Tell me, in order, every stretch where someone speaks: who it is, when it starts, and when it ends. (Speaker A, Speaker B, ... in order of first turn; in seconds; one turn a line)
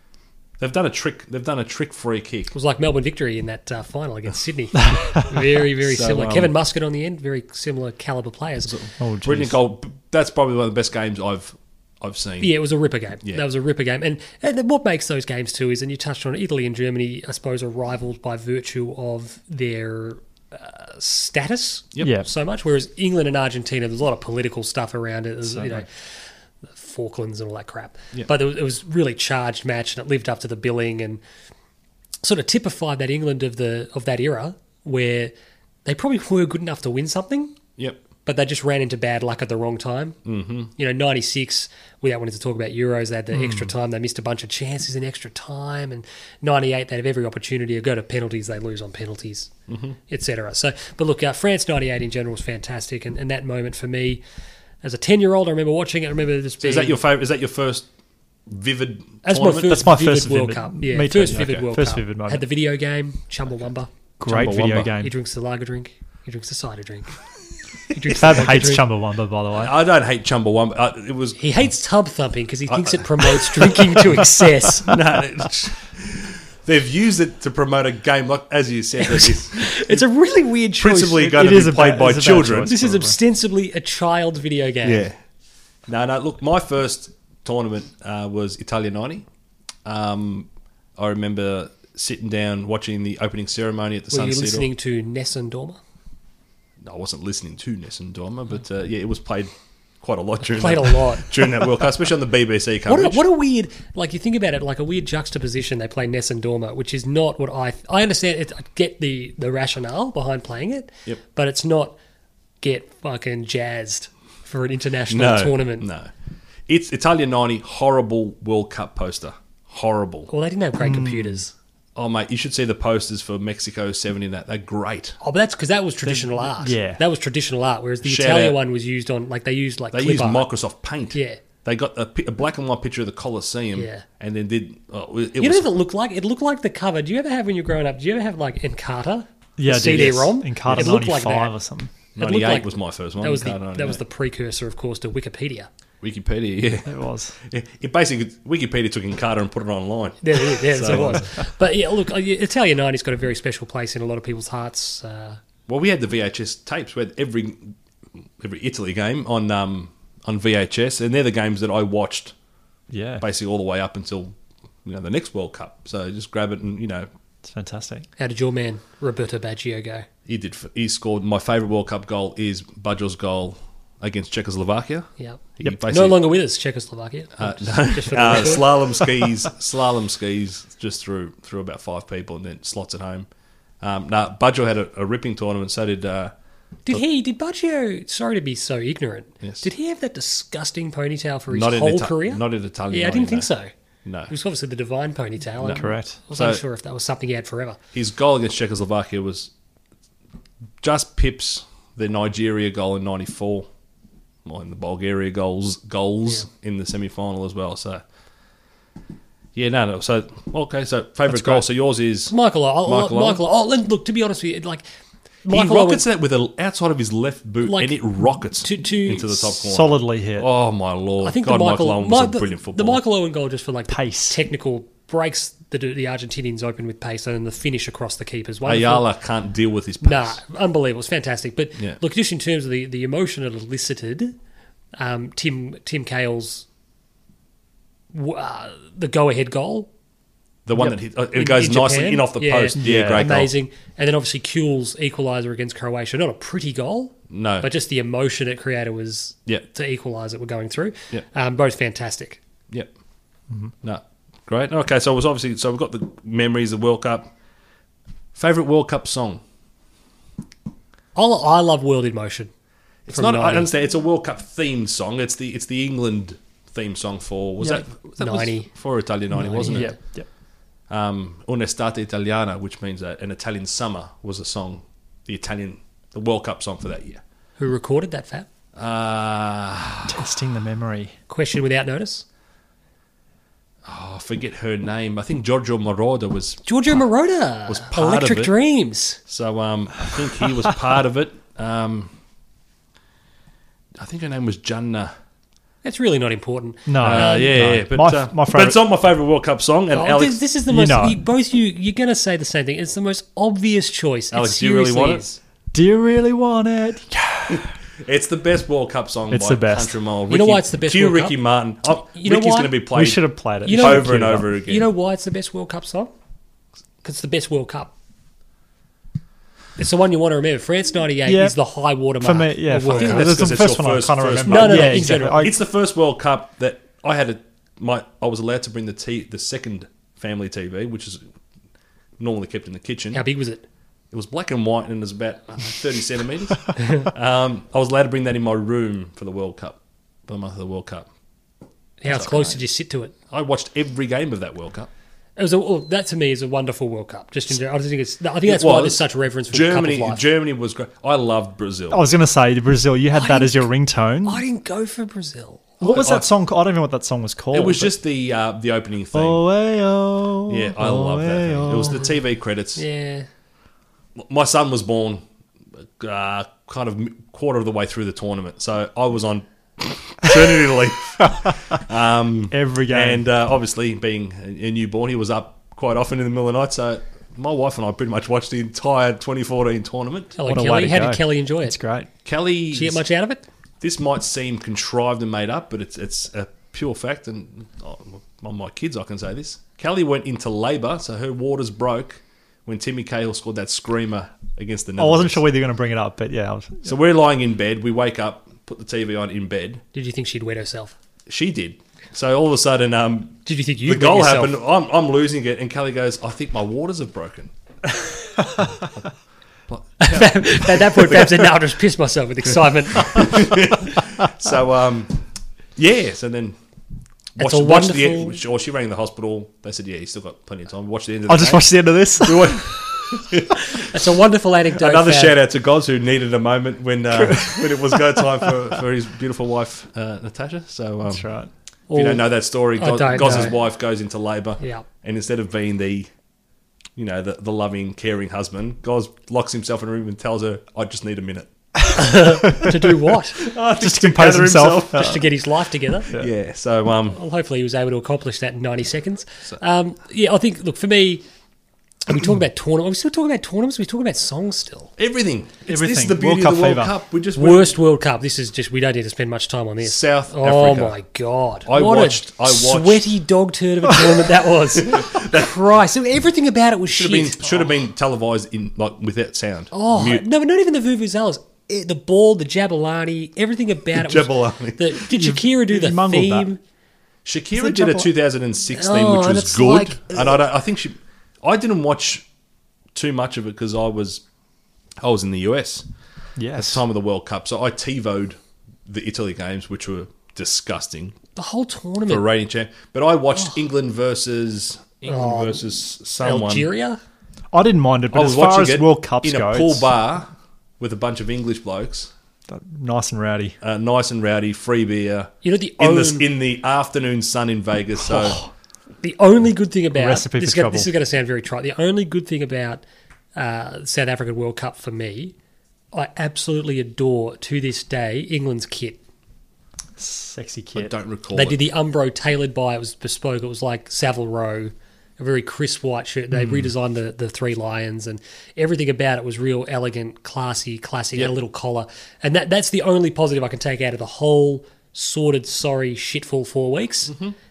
Speaker A: 0.6-2.5
Speaker B: 2.5-8.8
Speaker A: 5.8-6.5
Speaker A: 8.7-12.5
Speaker C: 9.0-9.6
Speaker B: 12.4-31.2
Speaker C: 25.5-25.8
Speaker B: 32.2-35.3
Speaker B: 35.9-37.6
Speaker B: 38.2-40.2
Speaker A: 40.2-40.7
Speaker B: 40.8-49.5
Speaker C: 43.4-43.7
Speaker A: 49.7-50.0
Speaker B: 50.1-54.2
Speaker B: 54.8-57.0
Speaker A: 56.6-57.9
Speaker A: 58.5-59.8
Speaker B: 59.2-63.9
Speaker C: 59.6-62.4
Speaker A: 61.3-61.6
Speaker C: 64.2-65.1
Speaker A: 64.3-64.9
Speaker B: 64.8-67.2
Speaker B: 67.9-68.8
Speaker C: 68.1-69.7
Speaker A: 69.5-71.4
Speaker B: 71.4-75.0
Speaker A: 72.7-74.2
Speaker A: 74.8-80.0
Speaker B: 79.0-81.4
Speaker A: 80.8-82.8
Speaker C: 81.2-83.2
Speaker B: 82.6-85.1
Speaker A: 84.8-85.2
Speaker A: 85.9-89.3
Speaker A: 89.8-94.7
Speaker B: 94.1-95.8
Speaker A: 96.8-99.5
Speaker A: 100.0-103.2
Speaker B: 100.4-101.3
Speaker B: 102.9-112.0
Speaker B: 112.6-115.9
Speaker A: 115.1-116.1
Speaker A: 116.7-120.3
Speaker B: 120.3-121.5
Speaker C: 120.8-121.4
Speaker A: 122.0-125.2
Speaker B: 125.2-130.4
Speaker C: 126.0-127.0
Speaker A: 128.0-128.6
Speaker A: 129.9-135.8
Speaker B: 131.1-131.4
Speaker B: 133.8-134.0
Speaker B: 135.4-141.6
Speaker C: 139.6-141.9
Speaker A: 140.7-140.9
Speaker A: 142.2-144.0
Speaker B: 142.2-145.7
Speaker A: 146.0-146.9
Speaker C: 146.9-147.4
Speaker A: 147.5-151.3
Speaker B: 150.2-155.4
Speaker A: 155.7-157.8
Speaker A: 158.4-162.3
Speaker C: 162.9-163.2
Speaker A: 163.2-164.3
Speaker A: 164.8-167.1
Speaker C: 167.4-168.1
Speaker B: 168.2-170.1
Speaker A: 170.3-176.2
Speaker B: 175.2-178.8
Speaker A: 177.4-183.3
Speaker A: 183.8-186.3
Speaker B: 186.9-193.7
Speaker A: 191.5-193.5
Speaker A: 194.1-194.3
Speaker B: 194.3-197.8
Speaker A: 195.6-196.6
Speaker C: 195.7-196.2
Speaker A: 197.9-199.5
Speaker A: 200.8-203.7
Speaker A: 204.4-208.0
Speaker A: 209.6-213.4
Speaker C: 211.3-211.6
Speaker B: 212.3-214.8
Speaker B: 215.4-216.0
Speaker A: 215.5-223.0
Speaker B: 217.6-218.0
Speaker B: 218.6-219.5
Speaker C: 219.7-220.5
Speaker B: 221.2-229.1
Speaker C: 223.9-224.4
Speaker A: 228.7-230.4
Speaker B: 230.0-234.3
Speaker B: 235.0-236.7
Speaker B: 238.1-239.9
Speaker A: 240.7-243.5
Speaker B: 240.8-252.4
Speaker C: 242.8-243.4
Speaker A: 247.3-247.7
Speaker A: 253.8-257.3
Speaker A: 258.4-259.4
Speaker B: 261.1-262.5
Speaker A: 263.1-270.0
Speaker B: 263.1-263.7
Speaker B: 267.6-268.7
Speaker B: 269.3-270.0
Speaker C: 269.7-270.3
Speaker A: 270.9-277.2
Speaker B: 277.6-278.5
Speaker A: 278.8-280.2
Speaker C: 280.1-281.1
Speaker B: 281.3-282.2
Speaker A: 283.9-286.6
Speaker B: 286.6-289.2
Speaker A: 287.7-288.5
Speaker A: 289.3-292.1
Speaker A: 294.0-295.1
Speaker B: 295.8-297.6
Speaker C: 296.9-298.8
Speaker A: 297.0-300.4
Speaker B: 299.9-305.4
Speaker C: 300.7-301.2
Speaker A: 304.3-305.2
Speaker C: 305.7-307.7
Speaker A: 307.5-314.9
Speaker C: 309.3-310.0
Speaker B: 310.3-311.4
Speaker B: 312.1-312.8
Speaker C: 312.9-314.5
Speaker B: 313.6-316.1
Speaker B: 317.0-317.9
Speaker B: 319.8-323.4
Speaker C: 321.2-321.6
Speaker C: 322.2-325.6
Speaker A: 322.9-331.2
Speaker B: 324.5-325.5
Speaker A: 332.2-333.2
Speaker B: 333.1-333.6
Speaker A: 334.1-341.1
Speaker B: 342.0-343.1
Speaker A: 342.1-342.6
Speaker A: 343.3-344.9
Speaker B: 345.4-350.2
Speaker A: 348.4-352.0
Speaker C: 351.9-354.4
Speaker B: 353.1-353.7
Speaker B: 354.2-355.8
Speaker C: 355.8-357.9
Speaker A: 355.8-356.3
Speaker A: 357.5-359.4
Speaker C: 359.1-362.1
Speaker A: 360.5-362.8
Speaker B: 362.8-363.3
Speaker A: 364.2-365.2
Speaker A: 366.0-380.4
Speaker C: 372.5-373.2
Speaker B: 380.4-381.8
Speaker C: 380.5-382.1
Speaker A: 382.2-383.0
Speaker B: 382.7-383.4
Speaker A: 383.8-395.4
Speaker C: 395.0-396.9
Speaker A: 396.9-399.8
Speaker B: 399.9-400.9
Speaker A: 401.3-407.5
Speaker B: 403.5-404.5
Speaker A: 409.7-411.5
Speaker B: 410.0-414.0
Speaker A: 413.0-415.2
Speaker A: 415.8-416.6
Speaker A: 417.4-424.0
Speaker B: 417.4-418.4
Speaker C: 421.3-422.9
Speaker B: 423.9-425.4
Speaker A: 424.7-431.2
Speaker C: 427.1-428.8
Speaker C: 431.1-431.5
Speaker B: 431.9-432.3
Speaker A: 431.9-436.1
Speaker B: 432.8-433.6
Speaker B: 434.6-434.9
Speaker A: 437.0-442.0
Speaker B: 441.9-443.4
Speaker C: 442.2-442.9
Speaker A: 443.4-445.3
Speaker C: 443.6-445.2
Speaker B: 444.9-446.1
Speaker A: 446.1-447.2
Speaker B: 447.1-451.2
Speaker B: 452.1-454.9
Speaker A: 455.0-457.8
Speaker C: 455.7-456.9
Speaker B: 457.4-467.4
Speaker A: 459.8-461.0
Speaker A: 461.7-463.1
Speaker A: 464.8-465.6
Speaker A: 466.9-470.2
Speaker B: 469.7-476.6
Speaker A: 473.9-475.0
Speaker C: 475.1-476.5
Speaker A: 477.2-482.2
Speaker C: 477.6-478.1
Speaker B: 478.8-480.4
Speaker A: 482.9-484.2
Speaker A: 485.0-485.9
Speaker C: 486.4-486.8
Speaker A: 486.6-491.1
Speaker B: 491.4-492.2
Speaker A: 492.1-496.7
Speaker B: 495.1-497.0
Speaker C: 497.5-499.9
Speaker A: 498.1-502.1
Speaker C: 502.5-503.6
Speaker A: 503.6-508.4
Speaker B: 505.4-506.3
Speaker C: 508.1-508.5
Speaker B: 509.0-512.8
Speaker C: 509.9-510.9
Speaker B: 513.4-515.3
Speaker B: 515.9-519.0
Speaker C: 520.0-520.9
Speaker A: 520.8-521.6
Speaker B: 521.3-537.1